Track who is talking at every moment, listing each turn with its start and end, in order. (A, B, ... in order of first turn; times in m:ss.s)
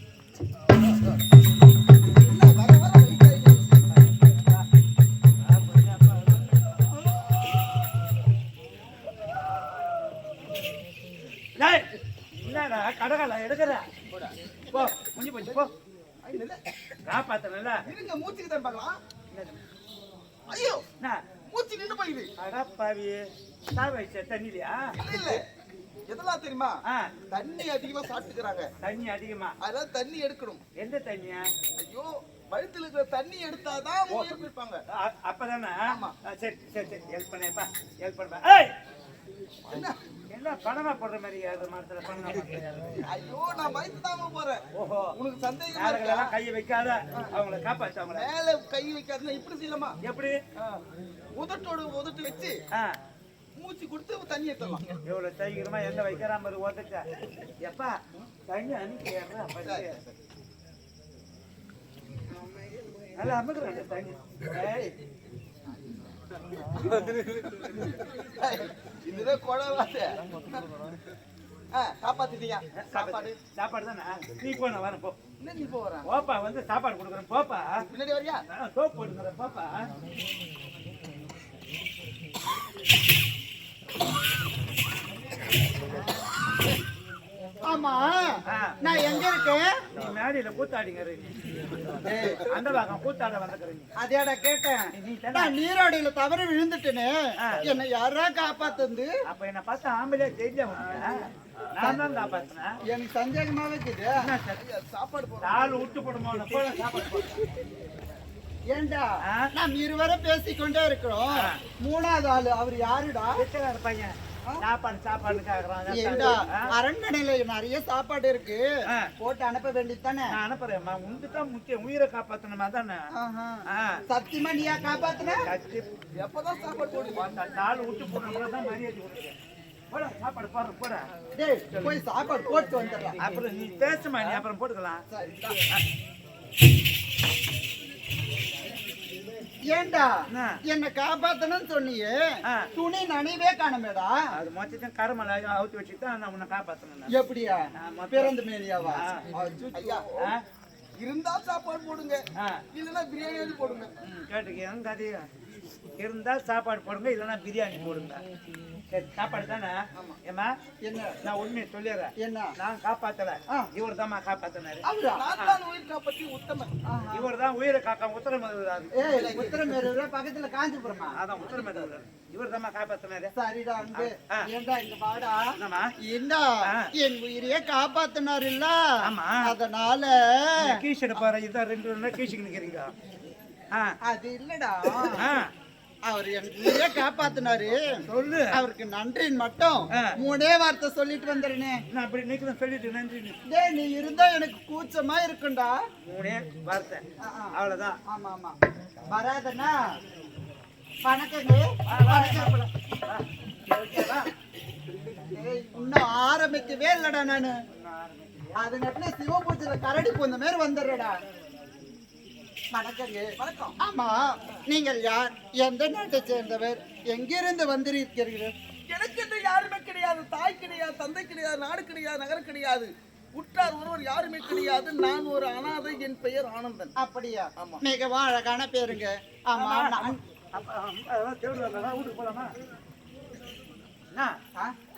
0:02.2-0:03.8 A
0:03.9-0:04.6 B
0:05.4-0:06.5 B
0:11.6-0:13.9 B
0:14.7-0:15.7 B
0:16.2-0:16.6 A
0:17.0-0:17.8 B
0:17.8-0:19.0 A
0:19.3-0:19.6 B
0:20.5-0:20.8 A
0:21.5-0:22.3 A
0:22.4-0:25.0 B
0:25.0-0:25.4 A
0:26.1-0:26.8 A
0:26.8-0:27.1 B
0:27.3-0:28.7 A
0:28.8-0:29.5 B
0:29.6-0:30.6 A
0:30.8-0:31.5 B
0:31.8-0:34.8 A
0:34.1-0:38.7 B
0:35.9-0:36.1 A
0:39.7-0:40.0 A
0:40.3-0:42.6 B
0:43.0-0:44.6 A
0:44.7-0:45.1 B
0:45.1-0:46.3 A
0:45.7-0:48.3 B
0:48.1-0:50.0 A
0:50.0-0:50.4 B
0:51.4-0:52.6 A
0:53.6-0:54.8 A
0:55.0-0:57.0 B
0:57.6-1:00.0 B
0:59.6-1:00.2 A
1:03.2-1:04.9 B
1:08.4-1:10.7 A
1:11.7-1:13.4 A
1:12.8-1:15.2 B
1:15.4-1:16.1 A
1:16.0-1:17.8 B
1:17.9-1:18.4 A
1:18.5-1:19.7 B
1:27.6-1:29.8 C
1:28.5-1:28.8 B
1:29.9-1:31.3 B
1:32.0-1:32.5 C
1:32.2-1:33.9 B
1:34.0-1:39.1 C
1:34.9-1:35.5 B
1:37.4-1:37.6 B
1:39.3-1:42.8 B
1:42.8-1:44.1 C
1:44.2-1:44.6 B
1:44.6-1:46.8 A
1:45.4-1:47.4 B
1:48.7-1:53.4 C
1:51.3-1:51.6 B
1:53.4-1:56.7 B
1:55.9-1:58.6 C
1:59.2-2:00.3 C
2:00.3-2:03.1 B
2:03.2-2:05.4 C
2:03.7-2:04.0 B
2:05.4-2:05.9 B
2:06.2-2:07.3 A
2:07.1-2:09.3 B
2:09.9-2:11.1 B
2:11.3-2:13.2 C
2:13.2-2:15.0 B
2:15.1-2:15.6 C
2:19.7-2:24.1 C
2:20.3-2:20.6 B
2:24.3-2:27.1 B
2:27.1-2:30.0 C
2:27.8-2:28.3 B
2:28.9-2:29.3 B
2:29.7-2:30.3 A
2:31.0-2:32.2 A
2:32.3-2:32.6 B
2:32.7-2:34.0 A
2:34.1-2:35.2 B
2:36.0-2:38.2 B
2:38.9-2:40.5 B
2:40.8-2:41.1 C
2:41.2-2:45.6 B
2:42.2-2:42.5 C
2:44.8-2:45.3 C
2:45.1-2:46.7 A
2:46.8-2:47.3 C
2:47.1-2:48.9 B
2:48.9-2:51.2 C
2:49.0-2:49.8 A
2:51.1-2:53.3 B
2:51.4-2:52.0 A
2:53.3-2:58.8 C
2:53.9-2:54.5 B
2:55.6-2:55.9 B
2:56.6-2:56.9 B
2:59.0-2:59.5 B
2:59.4-3:00.8 C
3:00.6-3:02.9 B
3:04.0-3:05.3 C
3:05.1-3:05.5 B
3:06.0-3:08.0 C
3:08.0-3:08.6 B
3:08.5-3:11.8 C
3:11.9-3:13.4 B
3:13.5-3:15.8 C
3:16.0-3:17.0 B
3:17.2-3:17.5 C
3:17.5-3:18.0 B
3:18.0-3:18.6 C
3:19.1-3:19.8 C
3:21.0-3:22.6 C
3:21.9-3:24.3 B
3:25.2-3:27.5 C
3:27.7-3:28.6 B
3:28.6-3:31.2 C
3:32.7-3:38.5 C
3:33.4-3:33.8 A
3:38.9-3:46.9 A
3:47.0-3:50.2 C
3:47.6-3:47.8 A
3:49.5-3:52.5 B